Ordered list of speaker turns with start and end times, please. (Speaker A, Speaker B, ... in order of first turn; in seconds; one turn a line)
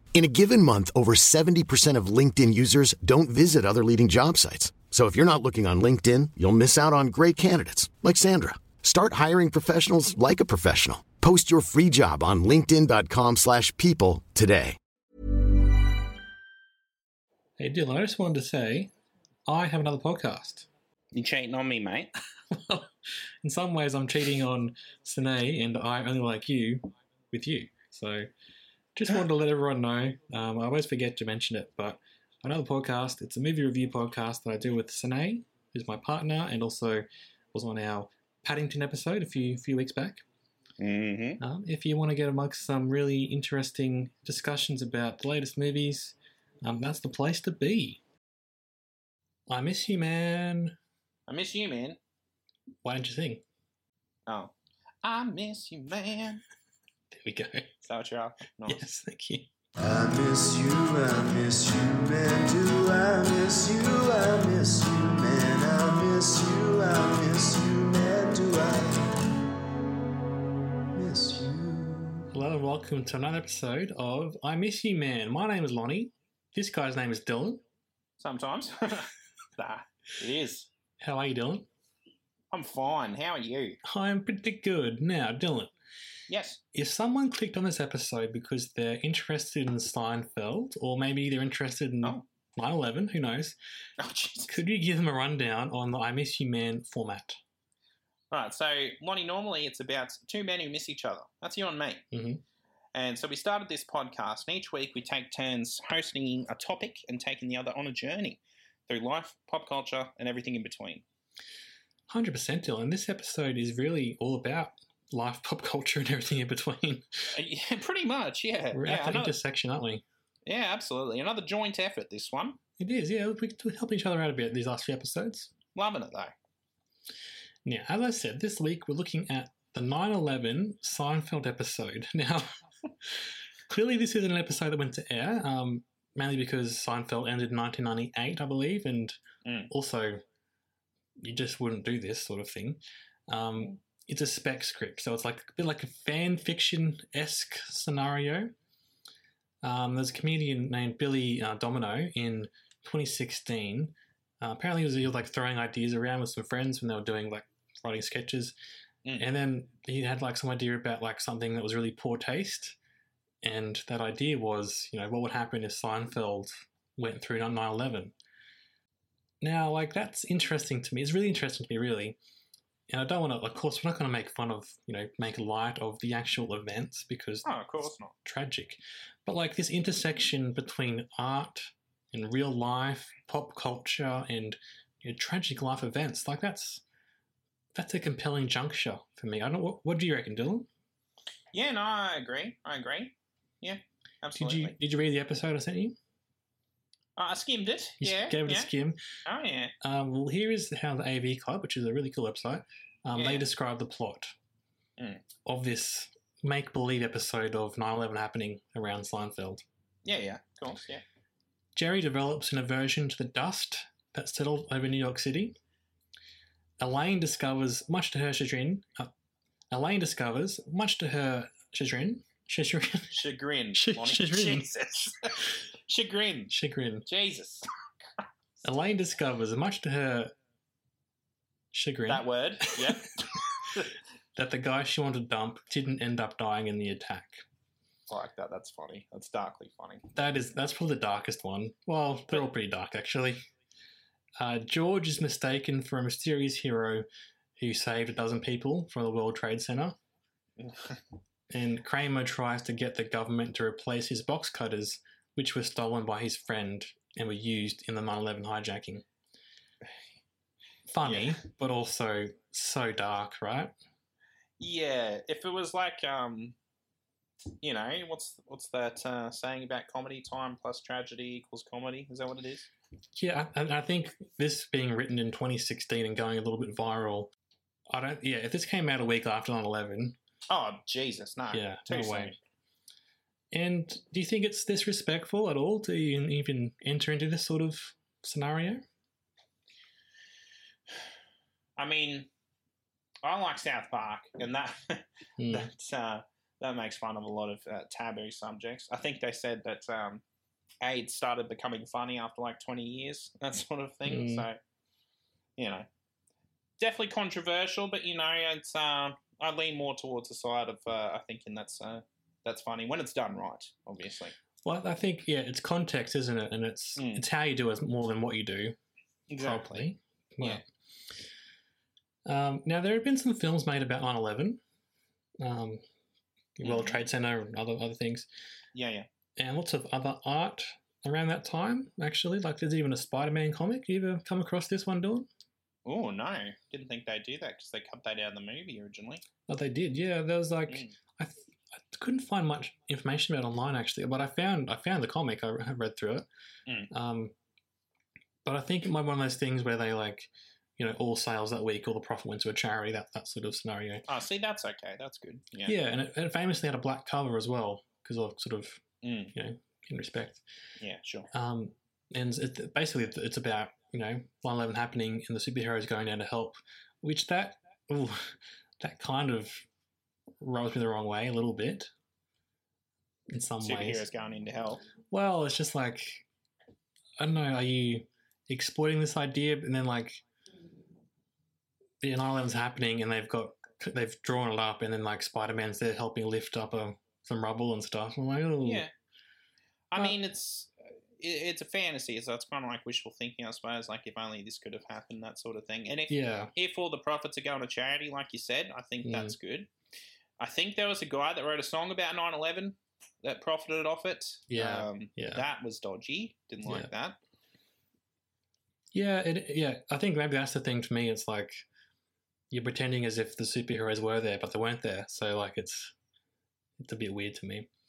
Speaker A: 0.1-14.8
Speaker B: 17.6-18.9
Speaker B: 19.5-20.7
Speaker C: 21.1-22.1
Speaker B: 22.5-22.9
Speaker B: 23.4-28.3
Speaker B: 28.9-40.2
Speaker C: 40.8-41.4
Speaker B: 41.4-48.0
Speaker B: 49.5-50.8
Speaker C: 51.3-52.0
Speaker B: 52.8-53.4
Speaker C: 54.3-56.4
Speaker B: 57.1-57.8
Speaker C: 57.8-58.8
Speaker B: 58.7-59.5
Speaker D: 59.8-69.1
Speaker D: 70.9-72.3
Speaker B: 72.3-77.6
Speaker C: 78.2-80.7
Speaker B: 81.0-81.7
Speaker C: 82.5-83.8
Speaker B: 83.8-85.7
Speaker C: 86.3-86.6
Speaker B: 86.7-93.6
Speaker C: 94.0-94.6
Speaker B: 94.5-97.4
Speaker C: 98.3-102.0
Speaker B: 102.1-102.4
Speaker C: 102.9-111.0
Speaker B: 112.1-117.4
Speaker C: 117.3-119.4
Speaker B: 118.7-120.0
Speaker C: 120.5-122.6
Speaker B: 122.8-125.5
Speaker C: 125.8-126.3
Speaker B: 127.7-132.5
Speaker B: 133.0-140.2
Speaker C: 139.4-139.7
Speaker B: 141.2-148.5
Speaker B: 149.6-158.6
Speaker B: 159.2-162.8
Speaker B: 163.4-168.1
Speaker B: 169.4-172.2
Speaker B: 172.9-186.8
Speaker C: 177.4-178.2
Speaker B: 187.8-190.7
Speaker C: 191.5-194.8
Speaker B: 194.4-196.0
Speaker C: 197.2-198.7
Speaker B: 198.0-199.0
Speaker C: 199.3-199.7
Speaker B: 199.8-204.3
Speaker C: 203.2-203.5
Speaker C: 205.0-205.2
Speaker B: 205.4-209.7
Speaker C: 210.1-211.0
Speaker B: 211.8-215.6
Speaker B: 216.8-219.1
Speaker B: 219.7-224.7
Speaker C: 223.1-226.5
Speaker B: 226.5-227.1
Speaker C: 227.1-227.7
Speaker B: 228.6-230.3
Speaker B: 231.7-233.0
Speaker C: 232.1-233.9
Speaker B: 234.4-237.4
Speaker C: 238.1-240.1
Speaker B: 240.2-243.4
Speaker B: 244.4-250.0
Speaker C: 250.6-251.0
Speaker B: 251.5-259.1
Speaker B: 260.9-263.7
Speaker C: 261.0-261.4
Speaker C: 264.6-266.6
Speaker C: 267.6-272.7
Speaker B: 273.1-277.3
Speaker B: 277.9-280.2
Speaker C: 280.5-282.4
Speaker B: 281.5-282.4
Speaker B: 283.5-288.9
Speaker C: 291.8-292.3
Speaker C: 293.2-300.2
Speaker B: 295.4-295.7
Speaker C: 300.8-304.6
Speaker B: 304.1-304.5
Speaker C: 305.6-305.9
Speaker C: 306.8-314.4
Speaker B: 314.6-318.8
Speaker C: 317.0-317.3
Speaker C: 319.3-319.9
Speaker B: 319.4-320.6
Speaker B: 322.3-324.6
Speaker B: 325.4-325.8
Speaker B: 326.6-328.3
Speaker C: 326.6-327.1
Speaker C: 328.8-329.1
Speaker B: 329.4-335.3
Speaker C: 335.9-339.2
Speaker B: 339.5-346.3
Speaker C: 340.7-340.9
Speaker B: 346.9-347.4
Speaker B: 348.4-354.1
Speaker C: 354.1-355.8
Speaker B: 355.6-358.8
Speaker C: 359.0-359.4
Speaker B: 359.3-360.4
Speaker C: 360.8-361.3
Speaker B: 361.3-369.6
Speaker B: 370.4-371.9
Speaker B: 373.3-374.1
Speaker C: 373.6-374.8
Speaker B: 375.1-376.2
Speaker B: 377.2-380.2
Speaker B: 382.0-388.9
Speaker C: 388.6-388.9
Speaker C: 389.9-399.7
Speaker B: 396.1-396.5
Speaker B: 399.0-399.4
Speaker C: 400.4-407.2
Speaker B: 404.5-405.4
Speaker B: 408.9-411.6
Speaker B: 412.5-415.9
Speaker B: 416.8-417.7